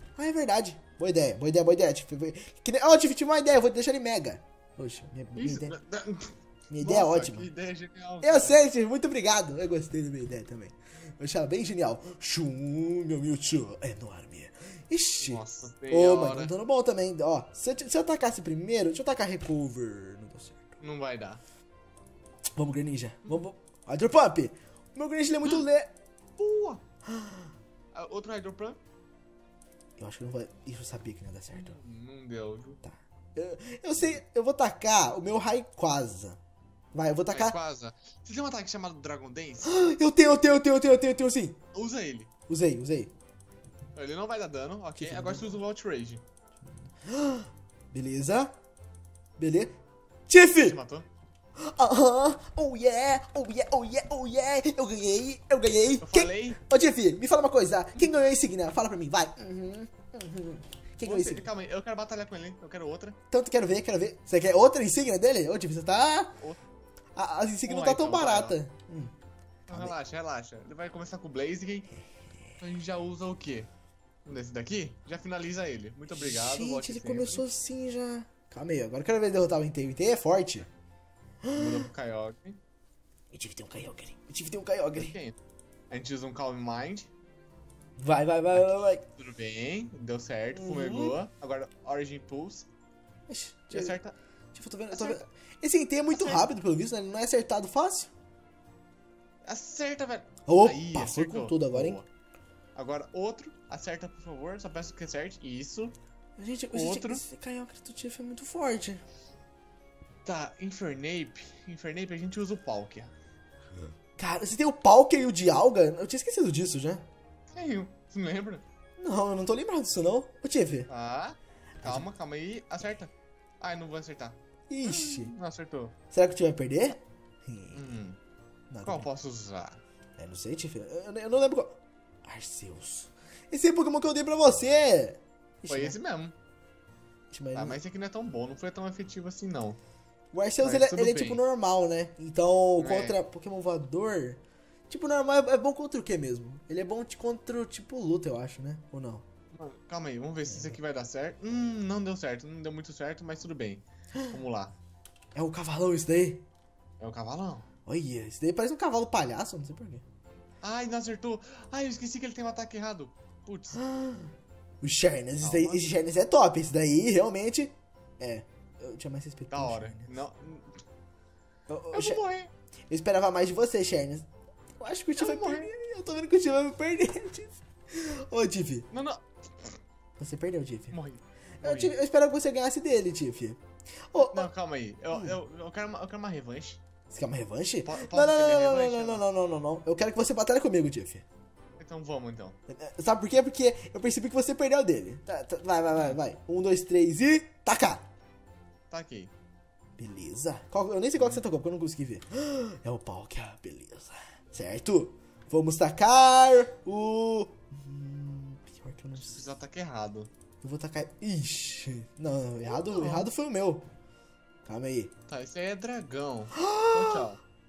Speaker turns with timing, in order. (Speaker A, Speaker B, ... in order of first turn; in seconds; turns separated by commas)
Speaker A: 0.2-5.8, Speaker B: 5.3-8.6, Speaker A: 6.7-7.5, Speaker A: 8.2-20.7, Speaker B: 15.2-16.5, Speaker B: 20.8-21.4, Speaker A: 22.6-25.9, Speaker B: 26.4-26.8, Speaker A: 27.1-27.5, Speaker B: 27.9-28.8, Speaker A: 30.0-31.8, Speaker B: 31.5-32.8, Speaker A: 32.8-36.4, Speaker A: 36.9-37.6, Speaker B: 37.3-39.7, Speaker A: 39.6-41.6, Speaker B: 41.7-42.3, Speaker A: 42.5-43.1, Speaker B: 44.0-46.2, Speaker A: 45.0-45.6, Speaker A: 47.0-48.5, Speaker A: 49.4-49.8, Speaker A: 50.3-50.8, Speaker B: 50.5-51.1, Speaker A: 51.6-61.5, Speaker B: 56.0-56.6, Speaker B: 61.0-63.2, Speaker A: 63.3-66.4, Speaker A: 67.2-69.1, Speaker B: 67.6-68.5, Speaker B: 69.7-71.9, Speaker B: 72.6-73.7, Speaker B: 74.3-77.5, Speaker A: 76.1-80.7, Speaker A: 81.4-81.7, Speaker B: 81.5-82.6, Speaker A: 83.3-85.2, Speaker B: 84.9-85.4, Speaker B: 85.9-87.1, Speaker A: 88.0-89.1, Speaker B: 88.5-92.7, Speaker A: 90.5-91.2, Speaker A: 93.3-94.0, Speaker B: 93.7-94.2, Speaker A: 94.5-98.1, Speaker B: 94.9-95.3, Speaker B: 96.1-96.5, Speaker B: 99.4-102.1, Speaker A: 100.5-102.0, Speaker B: 102.8-106.0, Speaker A: 106.4-109.0, Speaker B: 106.7-107.2, Speaker B: 110.2-113.1, Speaker A: 114.2-117.0, Speaker B: 117.5-118.6, Speaker A: 119.0-120.9, Speaker B: 120.9-126.0, Speaker A: 121.8-122.1, Speaker A: 124.7-125.3, Speaker A: 126.1-127.8, Speaker B: 127.7-128.2, Speaker A: 128.7-129.1, Speaker B: 128.8-129.8, Speaker A: 130.2-136.0, Speaker B: 135.7-136.3, Speaker A: 137.3-137.8, Speaker B: 137.6-139.8, Speaker A: 140.3-149.2, Speaker B: 140.6-141.4, Speaker B: 142.8-143.2, Speaker B: 149.5-154.8, Speaker A: 150.5-150.8, Speaker A: 155.3-156.4, Speaker B: 157.0-157.7, Speaker A: 157.9-160.0, Speaker B: 160.6-163.8, Speaker A: 163.8-170.2, Speaker B: 165.4-165.9, Speaker B: 169.5-170.8, Speaker A: 171.7-172.2, Speaker B: 171.9-172.5, Speaker A: 172.9-174.3, Speaker A: 174.8-178.9, Speaker B: 175.2-175.7, Speaker B: 178.9-179.8, Speaker A: 180.2-181.0, Speaker B: 180.9-181.9, Speaker A: 181.6-183.6, Speaker A: 184.1-184.5, Speaker B: 184.2-186.8, Speaker A: 187.1-191.2, Speaker B: 187.8-189.2, Speaker B: 191.8-192.6, Speaker A: 192.7-198.0, Speaker B: 198.9-199.3, Speaker A: 200.0-209.4, Speaker B: 201.2-201.4, Speaker B: 209.2-210.3, Speaker A: 210.6-213.8, Speaker B: 212.6-213.3, Speaker A: 214.7-215.1, Speaker B: 215.3-217.4, Speaker A: 216.6-217.3